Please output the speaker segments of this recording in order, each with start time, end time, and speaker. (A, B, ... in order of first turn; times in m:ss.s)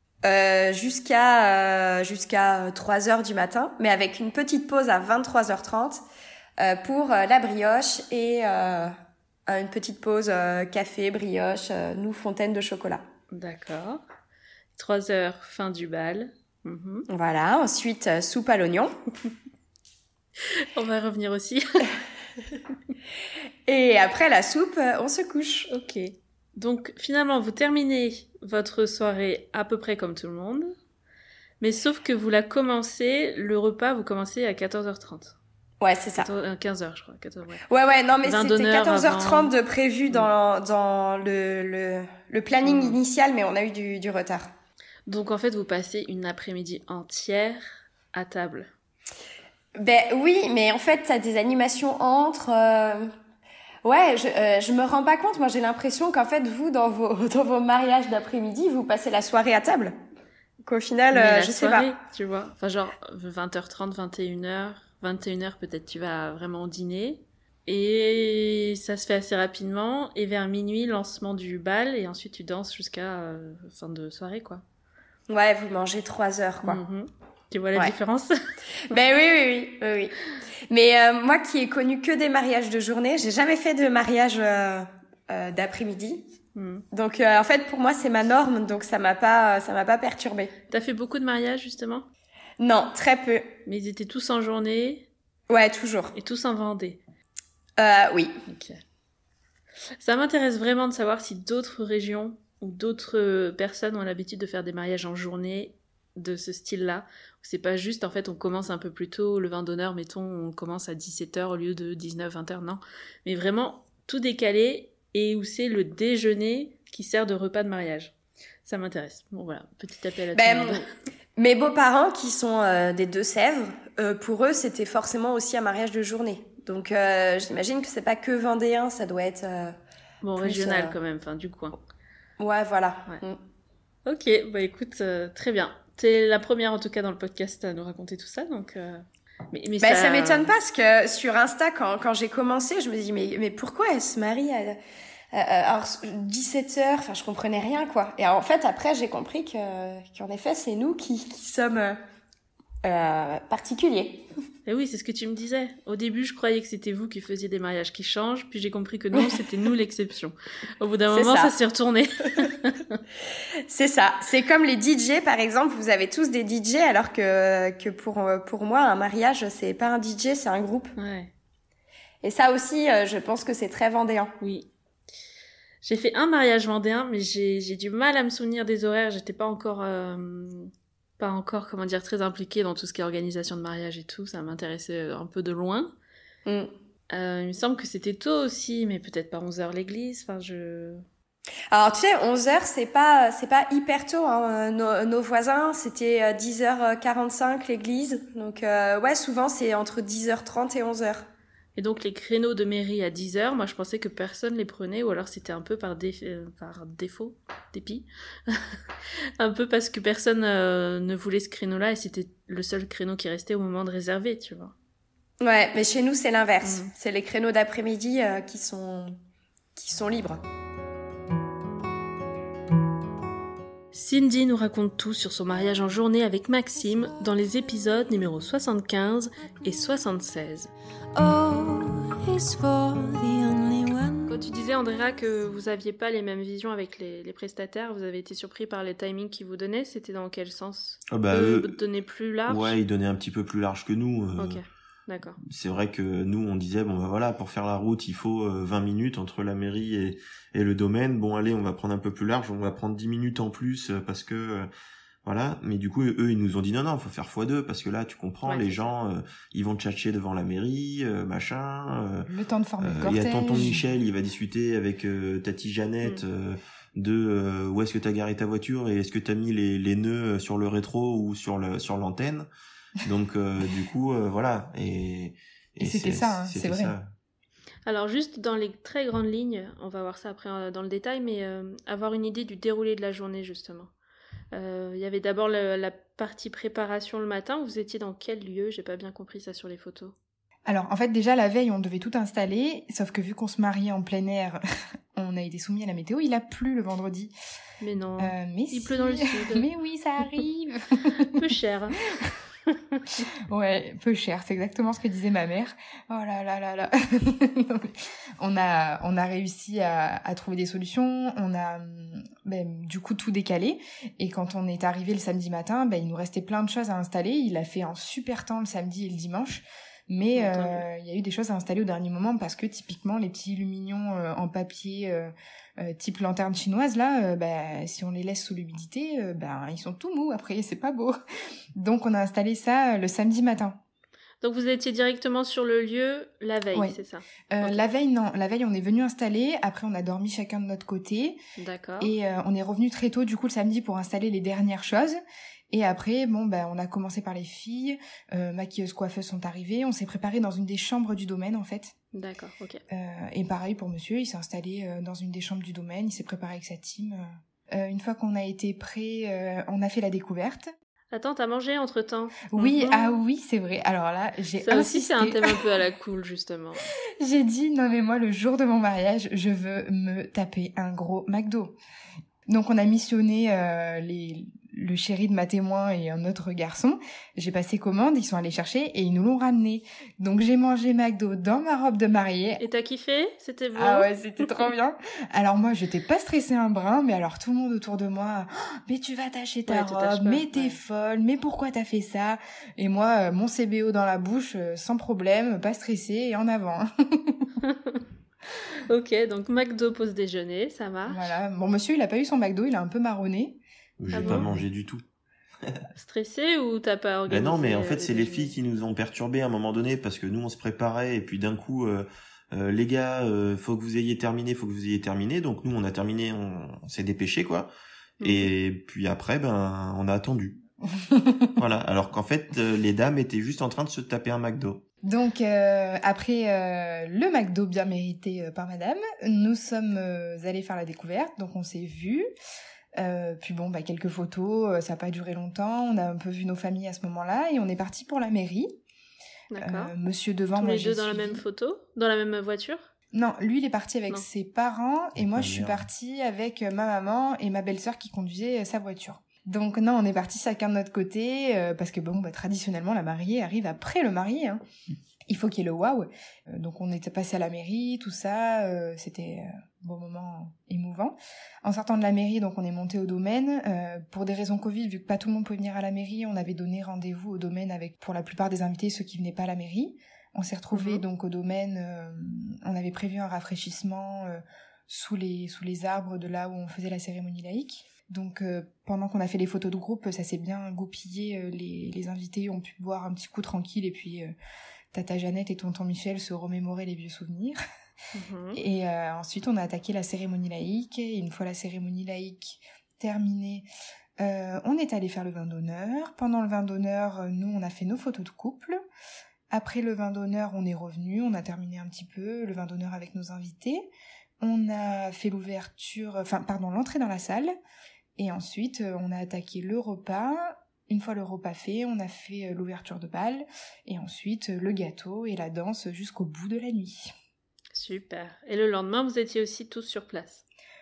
0:00.2-0:06.0 A
0:06.6-0:08.9 A
0:09.5-0:13.0 A
0:13.3-0:14.0 B
0:14.7-0:17.0 B
0:17.1-0:18.9 A
0:20.7-0:21.9 B
0:23.7-0:25.7 A
0:25.7-0:30.7 B
0:31.6-0:35.4 B
0:35.8-0:36.3 A
0:36.2-0:37.6 B
0:37.7-0:44.5 A
0:38.2-0:39.5 B
0:42.6-0:43.0 B
0:45.1-0:48.7 B
0:49.8-0:53.1 A
0:53.8-1:00.0 A
1:00.6-1:01.9 A
1:01.1-1:14.6 B
1:15.3-1:16.8 A
1:16.6-1:18.3 B
1:18.9-1:20.1 A
1:20.7-1:26.3 A
1:26.5-1:26.8 B
1:26.9-1:30.5 A
1:30.7-1:32.0 B
1:32.6-1:33.6 A
1:33.6-1:35.1 B
1:35.5-1:36.1 A
1:36.1-1:37.0 B
1:37.8-1:38.4 A
1:38.5-1:38.8 B
1:40.0-1:58.1 B
1:58.6-2:00.9 B
2:00.3-2:00.8 A
2:01.4-2:09.8 A
2:10.2-2:11.8 B
2:10.4-2:10.9 A
2:12.4-2:13.4 A
2:14.0-2:20.5 B
2:19.8-2:24.8 A
2:25.3-2:32.0 A
2:32.8-2:34.2 A
2:34.6-2:43.0 B
2:41.1-2:41.5 A
2:43.7-2:50.9 A
2:51.0-2:51.3 B
2:52.2-2:54.3 A
2:54.4-2:54.7 B
2:55.8-3:05.9 B
3:06.4-3:06.7 A
3:07.1-3:11.0 B
3:11.7-3:21.2 A
3:21.8-3:28.8 B
3:29.4-3:34.7 B
3:35.4-3:39.2 A
3:36.6-3:36.9 B
3:39.8-3:40.4 A
3:43.9-3:50.7 B
3:49.6-3:49.9 C
3:51.1-3:54.4 C
3:54.3-4:02.8 B
4:01.1-4:01.8 D
4:02.5-4:04.6 D
4:04.4-4:05.4 B
4:05.4-4:14.7 D
4:15.2-4:22.3 D
4:18.4-4:18.9 B
4:22.3-4:23.8 E
4:22.8-4:32.5 D
4:33.0-4:37.1 D
4:35.8-4:36.9 E
4:37.8-4:43.9 B
4:44.5-4:50.1 B
4:50.7-4:54.6 E
4:55.1-4:57.3 E
4:57.8-4:59.7 B
4:58.2-5:01.3 E
5:00.2-5:00.4 B
5:01.2-5:03.2 B
5:03.5-5:31.2 E
5:20.3-5:20.8 B
5:31.8-5:33.8 E
5:34.4-5:37.8 B
5:37.5-5:41.4 E
5:41.6-5:42.1 B
5:42.0-5:45.2 E
5:45.7-5:51.9 E
5:52.1-5:52.8 B
5:52.9-6:00.7 E
6:01.1-6:03.2 B
6:02.5-6:05.7 E
6:04.6-6:06.9 B
6:07.2-6:11.7 E
6:12.5-6:22.6 E
6:22.6-6:24.7 B
6:23.8-6:37.5 E
6:29.7-6:30.8 B
6:37.6-6:38.0 B
6:38.9-6:41.3 B
6:41.0-6:43.6 E
6:44.0-6:45.0 D
6:44.1-6:44.5 B
6:44.1-6:44.6 E
6:46.0-6:48.5 B
6:47.3-7:00.6 D
6:58.2-6:58.5 B
7:01.1-7:01.5 E
7:01.6-7:04.8 D
7:05.0-7:12.2 E
7:13.0-7:18.7 E
7:19.5-7:19.9 B
7:19.6-7:21.4 E
7:20.6-7:22.9 B
7:23.1-7:34.6 E
7:25.3-7:25.8 D
7:35.3-8:04.3 E
7:50.7-7:51.0 B
8:04.9-8:07.6 E
8:08.1-8:08.6 B
8:08.5-8:13.7 E
8:14.2-8:18.8 E
8:19.5-8:23.9 E
8:24.4-8:27.5 E
8:28.2-8:37.1 E
8:37.7-8:40.4 B